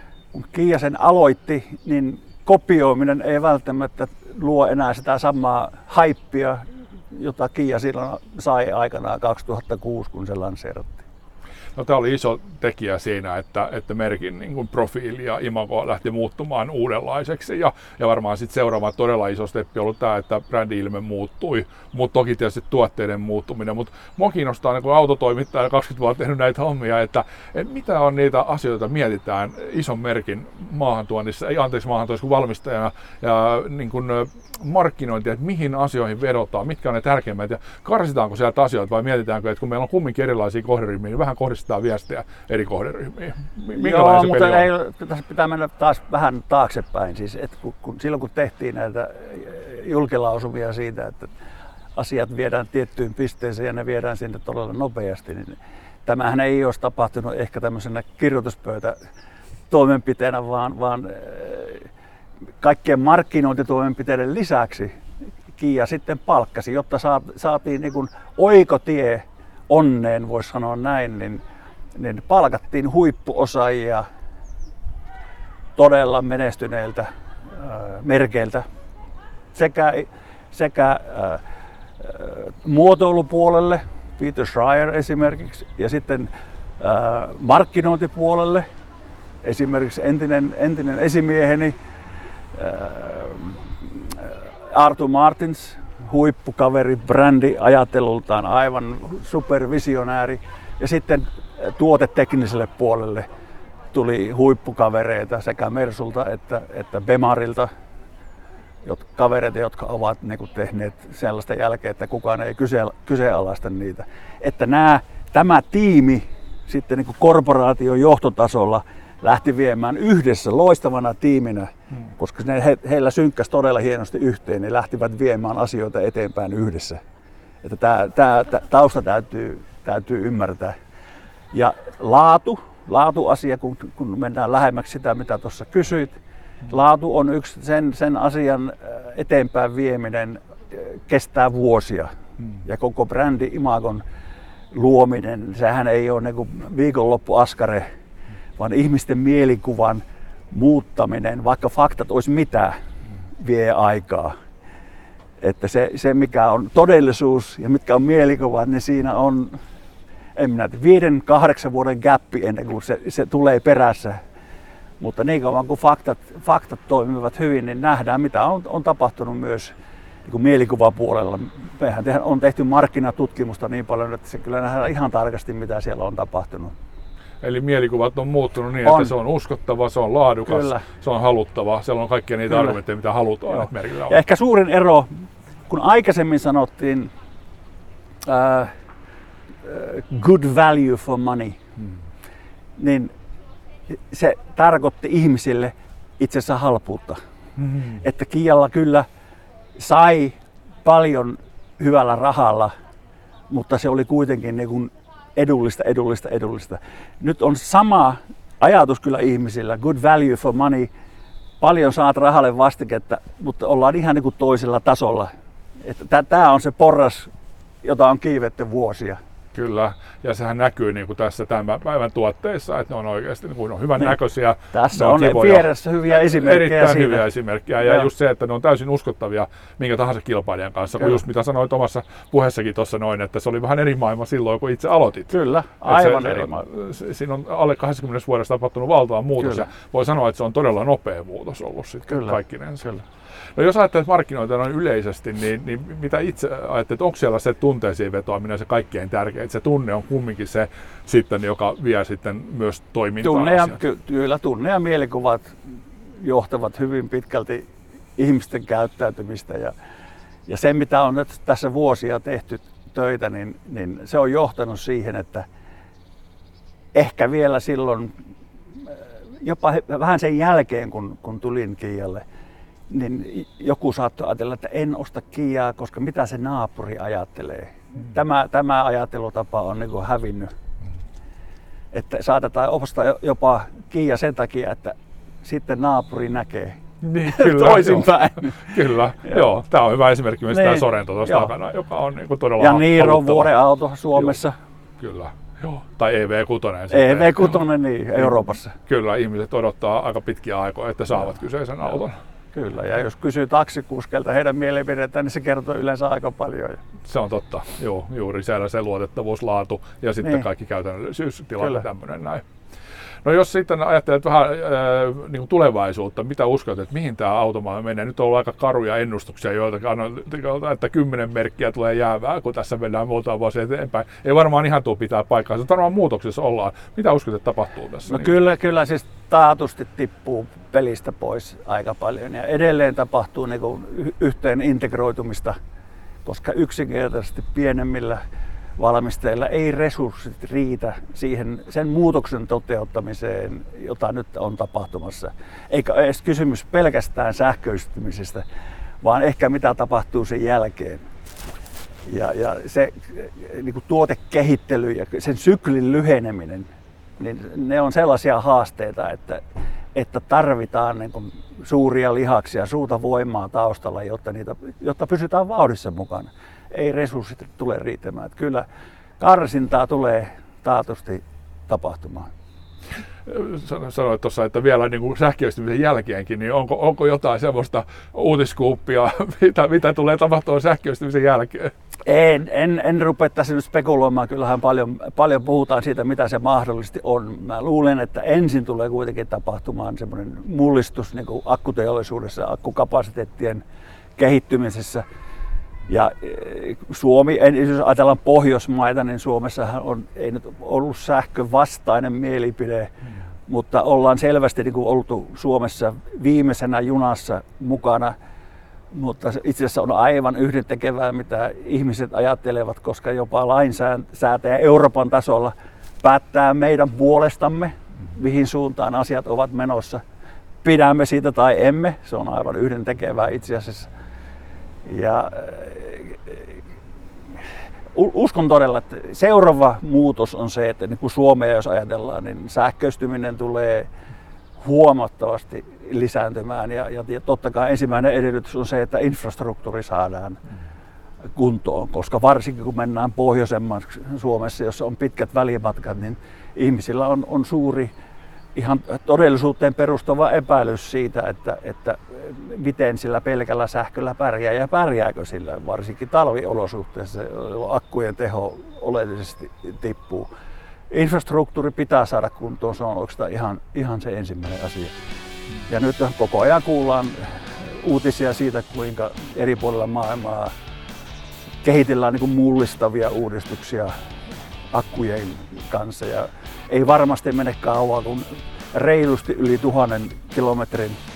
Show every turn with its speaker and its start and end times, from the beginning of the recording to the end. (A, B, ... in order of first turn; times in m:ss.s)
0:00.3-0:11.0 A
0:11.8-0:44.7 B
0:43.7-0:51.3 A
0:51.9-0:59.0 A
0:59.7-1:01.9 A
1:02.6-1:04.9 A
1:05.6-1:11.4 A
1:11.9-1:14.0 A
1:15.8-1:18.6 A
1:19.5-1:21.4 A
1:22.0-1:28.6 A
1:29.4-1:31.7 A
1:32.5-1:43.3 A
1:43.9-1:47.7 A
1:48.8-2:07.0 A
2:07.6-2:10.7 A
2:11.5-2:16.1 A
2:16.7-2:22.1 A
2:22.6-2:24.0 A
2:24.7-2:27.8 A
2:28.6-2:32.8 A
2:33.4-2:34.3 A
2:35.4-2:39.6 A
2:40.4-2:44.2 A
2:45.0-2:49.7 A
2:50.2-2:56.7 A
2:57.4-3:04.2 B
2:58.8-2:59.1 A
3:00.4-3:00.8 A
3:02.5-3:02.8 A
3:03.5-3:07.1 A
3:08.2-3:08.7 A
3:09.6-3:11.6 A
3:12.8-3:13.1 A
3:13.9-3:17.2 A
3:17.6-3:18.0 B
3:18.0-3:19.0 A
3:19.8-3:22.7 A
3:23.5-3:30.9 A
3:31.6-3:35.3 A
3:35.8-3:37.3 A
3:37.8-3:39.2 A
3:39.5-3:55.3 B
3:44.7-3:47.2 A
3:47.8-3:48.1 A
3:55.3-3:56.7 A
3:55.8-4:02.8 B
3:59.4-3:59.7 A
4:02.1-4:03.0 A
4:03.5-4:13.8 B
4:13.2-4:15.6 A
4:16.2-4:19.7 A
4:20.5-4:25.4 A
4:26.9-4:28.1 A
4:28.8-4:32.2 A
4:32.9-4:40.5 A
4:41.9-4:49.4 A
4:47.0-4:53.5 B
4:50.5-4:51.5 A
4:52.6-4:54.5 A
4:55.0-4:57.6 B
4:56.9-4:58.7 A
4:58.2-5:02.2 B
5:02.5-5:06.8 A
5:07.1-5:12.4 B
5:10.2-5:10.5 A
5:11.6-5:11.8 A
5:13.2-5:28.4 B
5:28.1-5:35.5 A
5:36.2-5:38.2 A
5:38.8-5:48.4 A
5:49.0-5:51.0 A
5:52.0-6:08.6 A
6:09.2-6:12.3 A
6:13.2-6:21.7 B
6:22.0-6:33.6 A
6:34.2-6:35.0 A
6:35.9-6:42.9 A
6:43.5-6:48.1 A
6:48.9-7:00.0 A
7:00.6-7:03.9 A
7:04.8-7:06.6 A
7:07.9-7:13.9 A
7:14.6-7:20.4 A
7:21.3-7:27.9 A
7:28.5-7:40.3 A
7:40.9-7:44.9 A
7:45.6-7:50.5 A
7:51.6-7:53.9 A
7:54.7-8:01.0 A